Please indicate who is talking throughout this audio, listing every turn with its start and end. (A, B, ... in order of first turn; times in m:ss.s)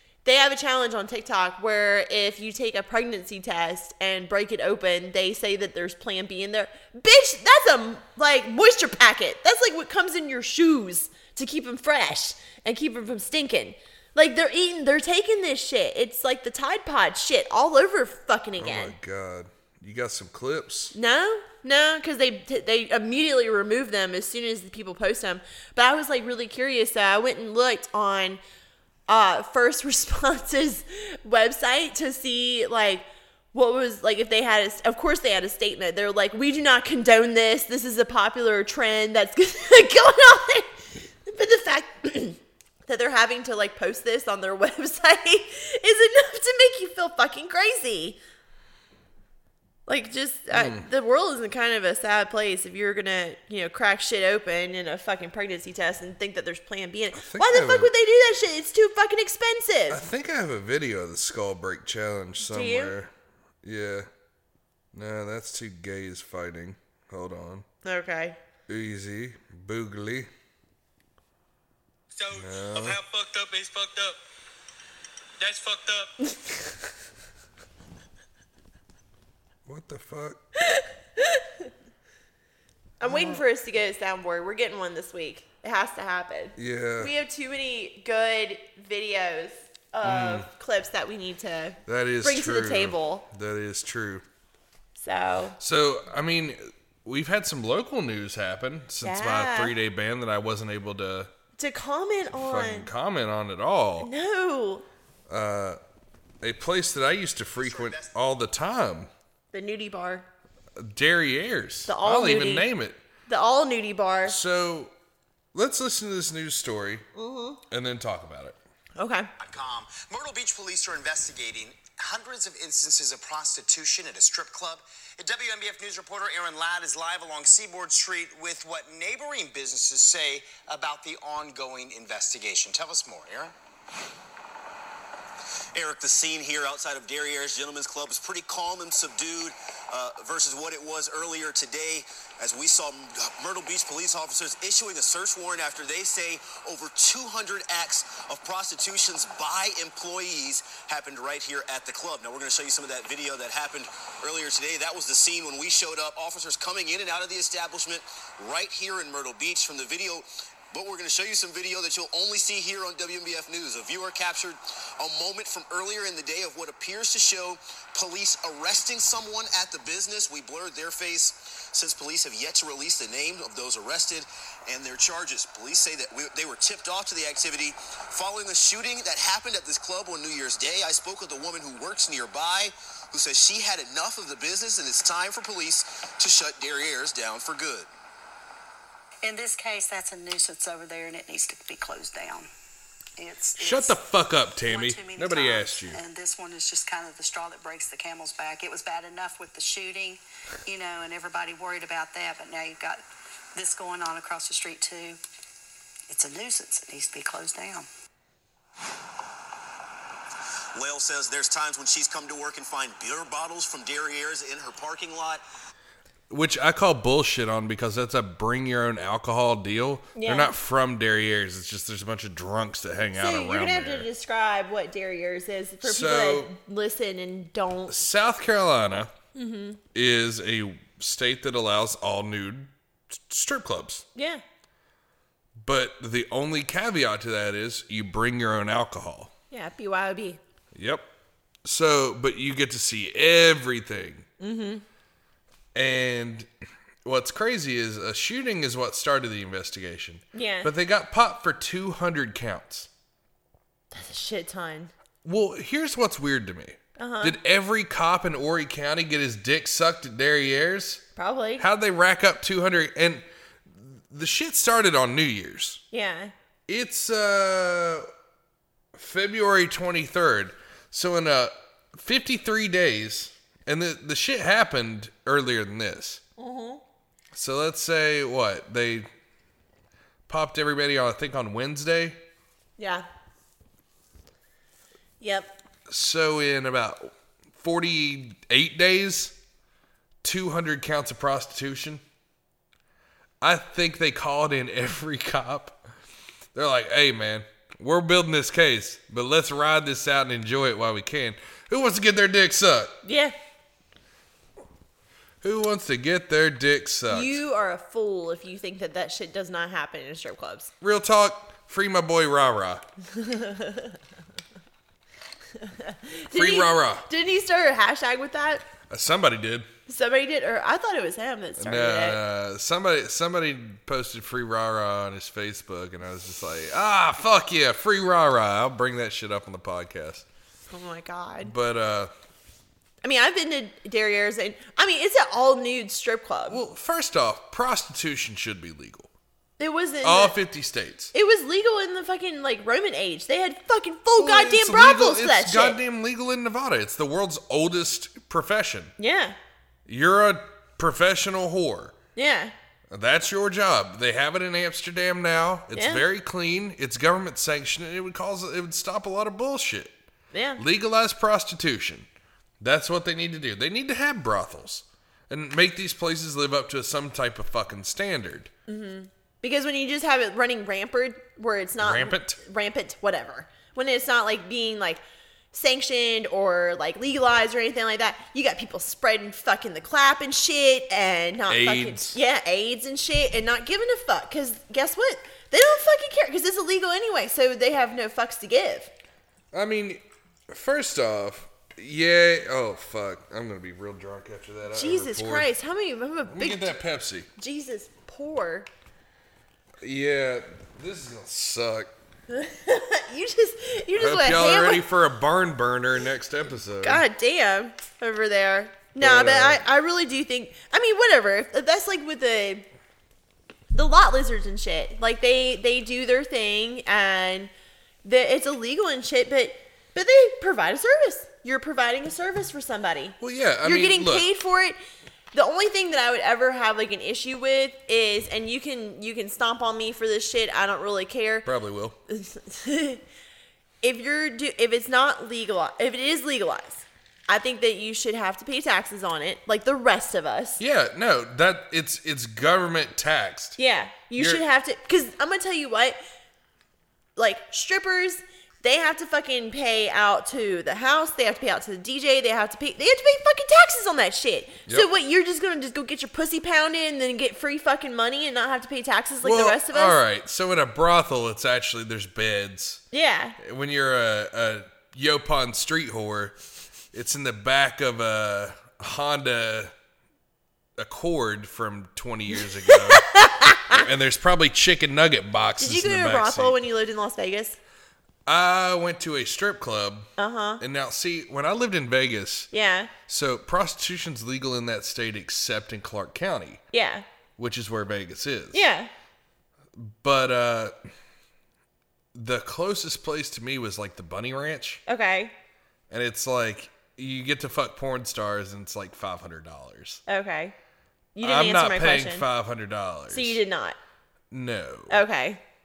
0:00.2-0:18.9 A
0:18.6-0:20.9 B
0:20.9-0:28.4 A
0:29.1-0:48.2 A
0:49.9-1:00.0 A
0:50.5-0:50.8 B
0:57.2-0:57.9 B
0:59.9-1:03.1 B
1:02.4-1:02.9 A
1:03.6-1:04.1 B
1:04.9-1:07.6 B
1:07.8-1:08.4 A
1:08.7-1:10.3 B
1:12.1-1:14.2 C
1:12.3-1:13.0 B
1:15.4-1:16.1 C
1:19.7-1:20.4 B
1:20.6-1:21.7 A
1:23.0-1:33.2 A
1:23.0-1:23.4 B
1:26.6-1:27.1 B
1:30.0-1:30.5 B
1:31.9-1:34.2 B
1:35.0-1:35.6 A
1:35.6-1:41.3 B
1:39.0-1:39.7 A
1:41.6-1:42.9 A
1:42.3-1:44.1 B
1:44.0-1:44.8 A
1:45.3-1:45.8 B
1:46.4-1:49.1 B
1:47.6-1:48.1 D
1:49.5-1:50.2 A
1:50.8-1:53.0 B
1:51.9-1:52.7 A
1:53.3-1:54.4 A
1:54.2-1:54.9 B
1:55.5-1:57.0 B
1:57.1-1:57.6 A
1:57.7-1:58.6 B
1:59.0-1:59.3 A
1:59.4-2:13.5 D
2:15.7-3:07.9 E
3:09.2-3:12.5 F
3:13.2-3:14.0 F
3:13.6-3:16.0 B
3:14.6-3:23.0 F
3:23.5-3:25.2 F
3:26.1-3:27.9 F
3:30.7-3:35.4 E
3:36.3-3:44.1 B
3:40.2-3:40.5 A
3:43.1-3:47.9 A
3:45.8-3:46.5 B
3:47.9-3:49.1 B
3:49.3-3:49.8 A
3:49.9-3:54.0 B
3:54.1-3:54.4 A
3:55.6-3:59.3 B
3:59.5-4:00.4 A
4:00.7-4:01.1 B
4:01.6-4:04.2 B
4:04.4-4:04.8 A
4:05.7-4:06.5 B
4:07.0-4:12.9 B
4:10.3-4:10.7 A
4:13.9-4:14.9 A
4:15.2-4:21.0 B
4:17.0-4:17.4 A
4:21.2-4:21.6 A
4:21.6-4:25.8 B
4:25.9-4:26.3 A
4:26.7-4:28.1 B
4:28.9-4:36.2 B
4:36.4-4:36.8 A
4:37.3-4:39.1 B
4:40.3-4:42.2 B
4:42.8-4:43.0 A
4:45.2-4:45.5 A
4:45.9-4:49.4 B
4:50.2-4:52.0 B
4:53.4-4:55.8 B
4:56.5-5:02.9 B
5:03.0-5:03.3 A
5:05.4-5:07.4 B
5:07.1-5:10.7 A
5:10.8-5:12.9 B
5:13.1-5:13.9 A
5:15.6-5:18.7 A
5:16.3-5:17.1 B
5:18.9-5:19.7 B
5:19.9-5:22.2 A
5:21.6-5:30.2 B
5:30.7-5:31.5 A
5:31.4-5:32.1 B
5:33.0-5:36.6 A
5:36.5-5:39.1 B
5:39.6-5:40.4 A
5:40.0-5:41.1 B
5:41.1-5:45.8 A
5:44.2-5:48.9 B
5:49.0-5:49.4 A
5:49.8-5:51.9 B
5:52.2-5:52.5 A
5:52.9-6:00.0 B
5:55.7-5:56.0 A
6:00.3-6:00.6 A
6:00.6-6:02.1 B
6:02.6-6:08.5 B
6:08.7-6:15.0 A
6:11.8-6:12.4 B
6:15.5-6:28.9 A
6:21.5-6:22.2 B
6:29.5-6:35.5 B
6:34.7-6:36.7 A
6:36.3-6:37.3 B
6:37.4-6:38.7 A
6:39.8-6:41.9 B
6:42.3-6:44.8 A
6:44.0-6:47.0 B
6:46.8-6:52.6 A
6:49.0-6:49.6 B
6:53.7-6:57.5 A
6:58.0-7:04.8 A
7:03.2-7:04.2 B
7:05.3-7:11.4 A
7:11.4-7:12.0 B
7:12.1-7:13.0 A
7:13.8-7:20.6 A
7:20.6-7:23.6 B
7:23.6-7:26.0 A
7:24.2-7:24.4 B
7:27.2-7:40.0 A
7:39.2-7:42.8 B
7:42.9-7:43.4 A
7:43.4-7:46.4 B
7:46.9-7:49.7 B
7:50.8-7:53.1 B
7:52.7-7:53.8 A
7:53.7-7:56.5 B
7:55.6-7:57.6 A
7:58.2-8:02.5 B
8:00.2-8:00.6 A
8:02.5-8:02.9 A
8:03.1-8:06.6 B
8:06.7-8:07.0 A
8:07.4-8:08.6 B
8:08.5-8:08.9 A
8:09.7-8:10.7 B
8:12.1-8:14.8 B
8:14.9-8:15.3 A
8:15.9-8:20.0 B
8:20.1-8:20.5 A
8:21.1-8:22.2 A
8:21.2-8:23.4 B
8:23.1-8:23.8 A
8:24.3-8:25.0 B
8:24.9-8:25.4 A